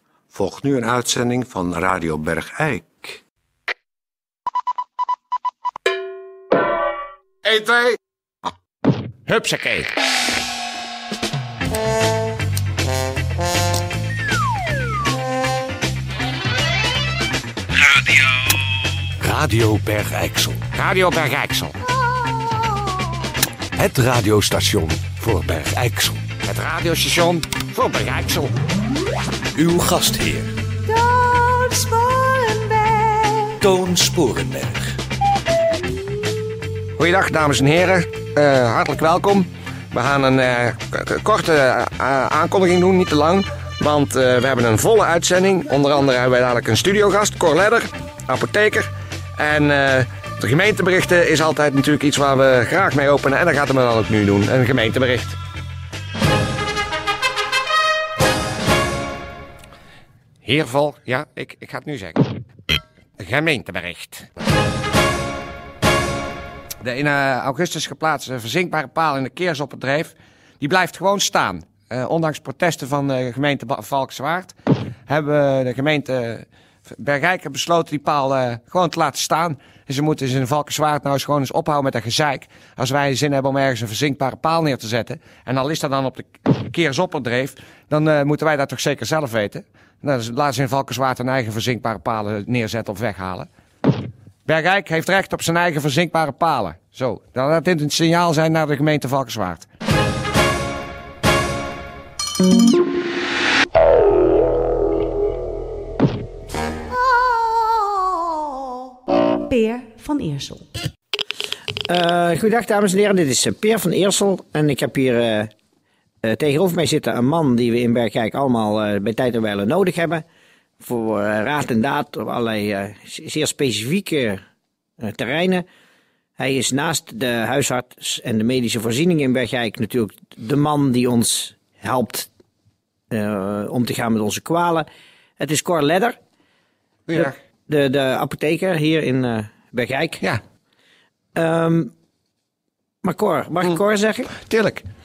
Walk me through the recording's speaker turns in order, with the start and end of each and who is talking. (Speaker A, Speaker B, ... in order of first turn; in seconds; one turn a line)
Speaker A: 0.3-3.2
Speaker B: 7.4-8.0
Speaker B: 9.3-9.9
Speaker C: 19.4-19.9
Speaker B: 20.6-21.8
Speaker C: 23.8-24.8
Speaker A: 24.8-25.3
Speaker C: 25.3-26.0
Speaker B: 26.4-28.5
Speaker A: 29.6-30.5
Speaker C: 29.6-30.2
Speaker D: 30.9-33.5
Speaker C: 33.6-34.8
Speaker A: 34.0-34.5
Speaker B: 37.0-55.4
Speaker B: 60.4-62.3
Speaker B: 63.2-64.3
Speaker B: 66.8-74.5
Speaker B: 75.1-93.5
Speaker B: 94.5-99.7
Speaker D: 109.4-110.7
Speaker E: 111.9-115.5
Speaker E: 116.2-120.2
Speaker E: 120.8-124.4
Speaker E: 125.0-125.6
Speaker E: 126.4-132.3
Speaker E: 133.1-134.8
Speaker E: 135.4-136.2
Speaker B: 137.1-137.3
Speaker E: 137.1-140.2
Speaker E: 141.3-141.9
Speaker E: 143.0-144.3
Speaker B: 144.3-144.8